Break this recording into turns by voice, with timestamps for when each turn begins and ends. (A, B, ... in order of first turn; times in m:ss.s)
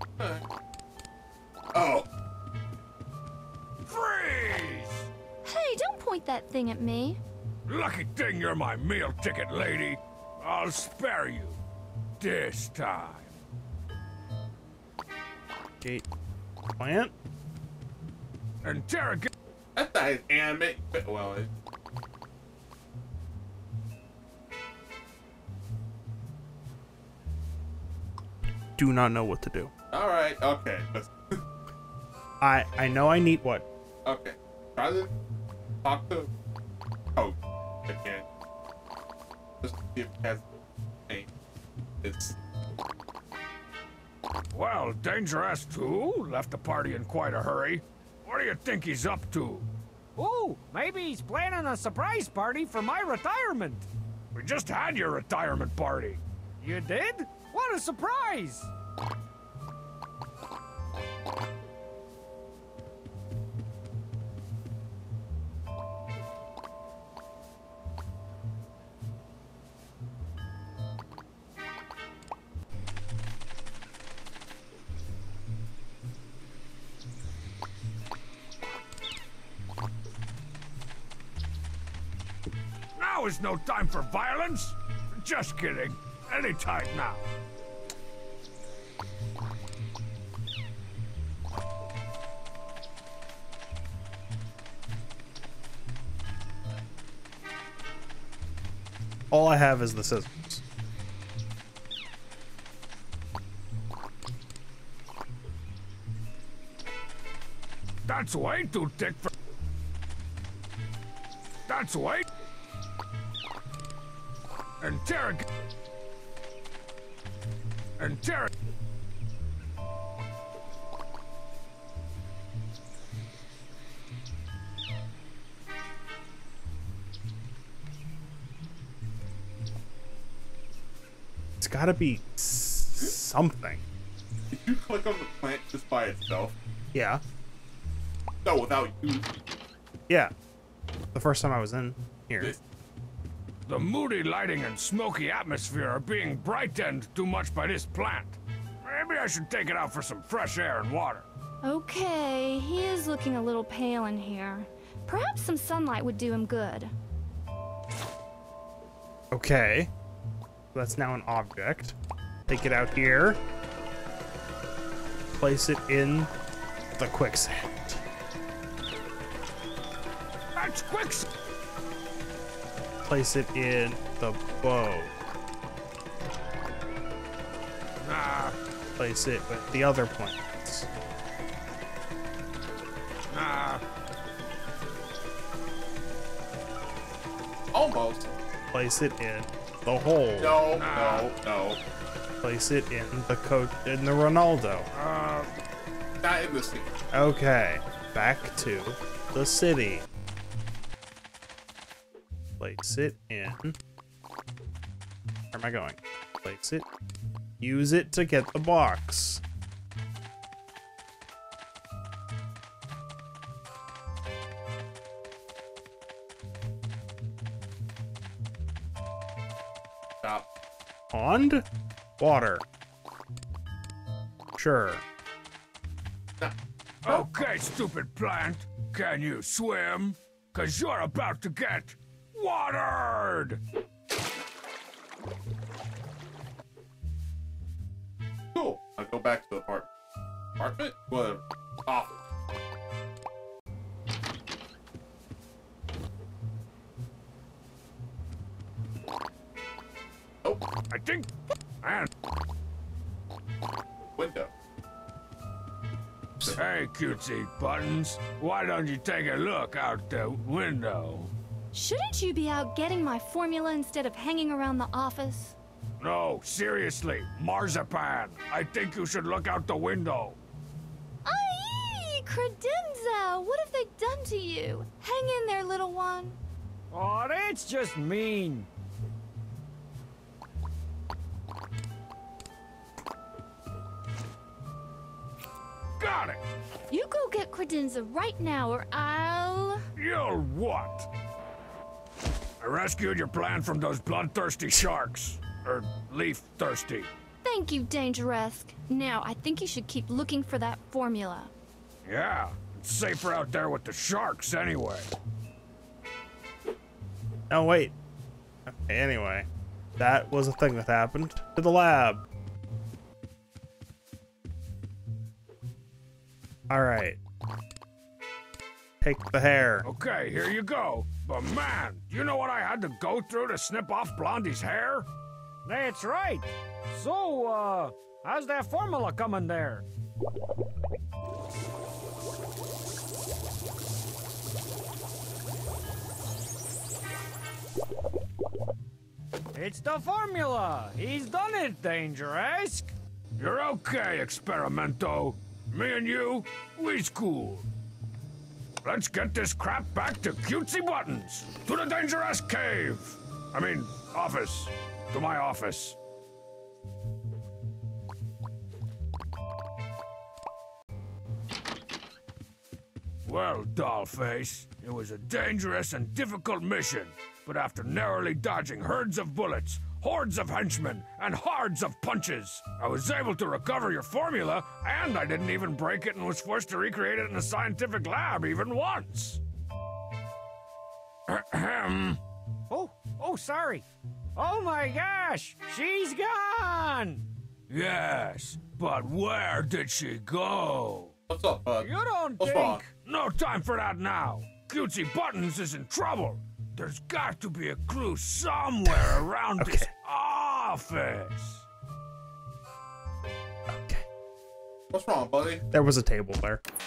0:00.2-0:00.4 A
0:01.7-0:02.1 A
0:03.8-0:05.1 B
0:05.4-0:07.2 C
0:07.7-0:11.6 B
0:12.2-0:13.4 B
0:15.8-0:16.0 D
0:16.8-0:17.1 D
0:18.6-0:19.3 B
0:19.8-0:21.5 A
0:28.8-0:29.7 D
0:29.9-0:31.4 A
0:32.4-0:33.7 D
0:34.0-0:35.1 A
0:35.8-0:36.3 A
0:37.2-0:38.2 A
0:39.6-0:40.4 A
0:42.0-0:42.4 A
0:44.5-0:49.7 B
0:50.2-0:53.9 E
0:54.3-0:56.2 B
0:56.6-0:58.7 E
1:23.0-1:27.2 B
1:39.3-1:40.6 D
1:48.0-1:49.3 B
1:51.7-1:52.3 B
1:54.8-1:55.4 B
1:58.0-1:58.5 B
2:11.6-2:13.8 D
2:14.5-2:16.6 A
2:16.9-2:17.2 D
2:18.4-2:19.3 A
2:20.1-2:20.3 D
2:21.1-2:22.5 D
2:23.7-2:31.2 B
2:31.6-2:36.9 C
2:39.3-2:39.9 D
2:40.7-2:42.0 D
2:42.5-2:43.4 D
2:45.3-2:46.3 D
2:47.0-2:48.0 D
2:50.5-2:51.2 B
2:53.0-2:55.1 D
2:58.0-2:58.6 B
2:59.0-3:00.9 D
3:03.3-3:03.8 B
3:07.7-3:08.3 A
3:08.7-3:10.6 D
3:10.4-3:11.8 A
3:10.7-3:11.3 B
3:12.4-3:14.9 D
3:14.9-3:15.5 B
3:16.2-3:16.9 A
3:17.1-3:20.1 D
3:22.6-3:23.8 D
3:25.5-3:26.8 D
3:27.6-3:29.4 D
3:41.1-3:41.6 D
3:42.2-3:42.6 D
3:44.6-3:45.0 D
3:47.0-3:53.6 B
3:47.0-3:47.5 A
3:58.5-3:59.9 A
4:00.6-4:02.1 A
4:10.9-4:11.3 B
4:11.8-4:12.1 B
4:14.2-4:14.5 A
4:16.4-4:21.3 B
4:21.7-4:25.6 C
4:26.0-4:30.4 B
4:31.2-4:36.4 C
4:36.9-4:38.7 E
4:46.0-4:46.4 B
4:46.9-4:49.8 C
4:50.0-4:51.1 B
4:52.6-4:57.1 B
4:57.4-5:01.5 C
5:02.0-5:05.1 B
5:07.5-5:07.9 D
5:08.6-5:12.2 D
5:16.7-5:17.2 D
5:19.0-5:19.9 D
5:19.8-5:25.1 B
5:25.6-5:29.8 E
5:39.5-5:42.9 E
5:43.4-5:47.7 B
5:48.8-5:56.0 B
6:03.2-6:19.4 B
6:21.3-6:22.2 B
6:22.7-6:23.8 E
6:24.4-6:27.2 E
6:27.7-6:31.1 B
6:31.3-6:32.8 A
6:31.8-6:32.9 E
6:33.0-6:41.6 B
6:38.9-6:39.9 D
6:43.7-6:44.0 D
6:44.9-6:45.6 A
6:45.7-6:46.6 D